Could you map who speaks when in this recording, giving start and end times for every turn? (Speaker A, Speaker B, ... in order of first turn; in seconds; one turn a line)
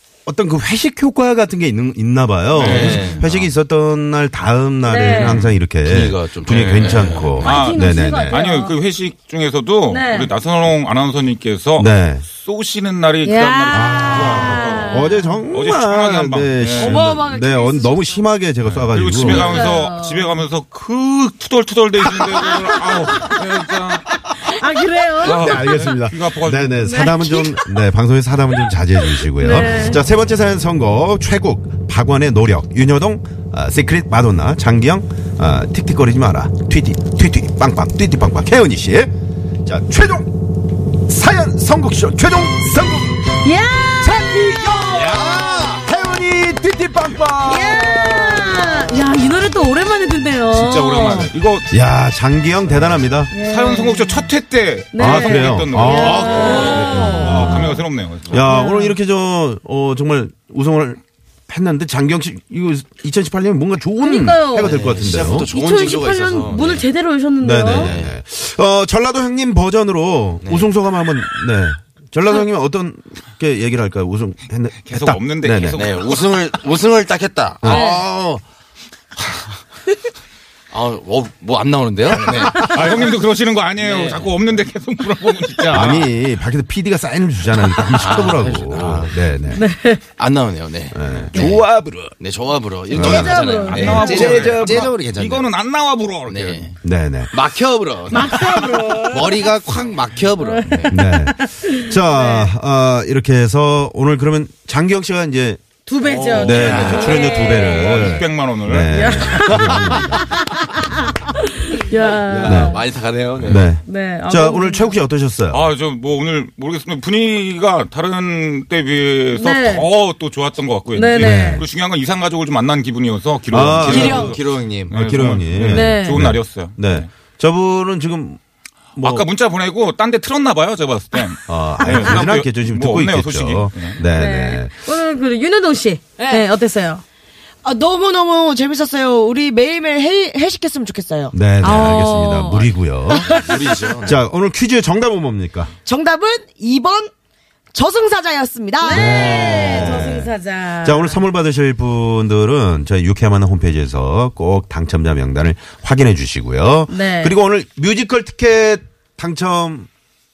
Speaker A: 0.2-8.4
Speaker B: 2.5-3.2
Speaker C: 2.6-3.5
Speaker D: 4.8-5.4
Speaker B: 5.0-5.6
Speaker C: 5.8-7.5
Speaker B: 6.5-17.1
Speaker D: 7.4-8.7
Speaker D: 9.9-10.3
Speaker A: 11.8-12.3
Speaker D: 13.2-15.4
Speaker A: 13.7-19.6
Speaker E: 16.8-18.1
Speaker B: 18.6-24.5
Speaker D: 19.2-20.3
Speaker D: 24.4-25.5
Speaker B: 25.2-26.8
Speaker A: 25.2-39.1
Speaker D: 26.8-27.8
Speaker D: 29.0-30.0
Speaker A: 39.6-40.3
Speaker A: 41.1-43.4
Speaker D: 43.4-45.4
Speaker A: 44.0-49.4
Speaker C: 44.9-45.8
Speaker D: 47.4-51.3
Speaker B: 50.5-51.7
Speaker A: 51.7-53.3
Speaker B: 52.6-58.5
Speaker D: 53.3-54.2
Speaker D: 54.9-57.6
Speaker A: 55.0-65.5
Speaker C: 56.4-56.7
Speaker E: 56.5-57.2
Speaker D: 58.4-59.0
Speaker D: 64.0-64.8
Speaker C: 64.6-66.9
Speaker D: 65.3-67.9
Speaker A: 67.4-75.8
Speaker C: 67.7-68.2
Speaker C: 70.4-70.7
Speaker B: 74.8-76.3
Speaker C: 75.8-78.4
Speaker A: 77.6-78.0
Speaker D: 77.7-78.0
Speaker C: 80.7-83.1
Speaker B: 82.1-86.1
Speaker C: 83.8-84.4
Speaker A: 85.7-89.6
Speaker C: 87.9-89.2
Speaker D: 89.5-90.0
Speaker C: 90.2-91.7
Speaker A: 90.9-92.2
Speaker D: 91.3-91.6
Speaker C: 92.2-95.5
Speaker A: 92.9-94.9
Speaker D: 92.9-94.5
Speaker B: 93.6-96.8
Speaker C: 96.3-96.7
Speaker A: 96.8-97.3
Speaker C: 97.3-101.0
Speaker D: 98.1-99.5
Speaker D: 100.4-102.5
Speaker A: 100.9-105.6
Speaker D: 105.8-108.2
Speaker C: 106.0-107.2
Speaker A: 106.3-110.3
Speaker B: 107.1-109.6
Speaker D: 108.9-112.8
Speaker C: 112.0-113.6
Speaker A: 112.4-112.8
Speaker A: 113.4-115.6
Speaker D: 113.8-115.0
Speaker B: 115.5-127.1
Speaker D: 119.3-119.9
Speaker D: 120.9-121.6
Speaker A: 121.2-121.6
Speaker A: 123.5-128.4
Speaker C: 123.8-125.0
Speaker D: 125.7-126.2
Speaker B: 128.9-134.0
Speaker A: 129.0-129.3
Speaker A: 131.5-134.7
Speaker D: 131.8-132.2
Speaker D: 134.1-137.0
Speaker E: 136.2-136.4
Speaker E: 137.6-141.3
Speaker A: 141.3-143.5
Speaker D: 141.6-142.7
Speaker C: 143.2-144.2
Speaker A: 144.0-145.7
Speaker E: 145.8-147.1
Speaker E: 147.7-150.0
Speaker D: 148.8-151.2
Speaker A: 148.9-159.9
Speaker D: 156.9-157.3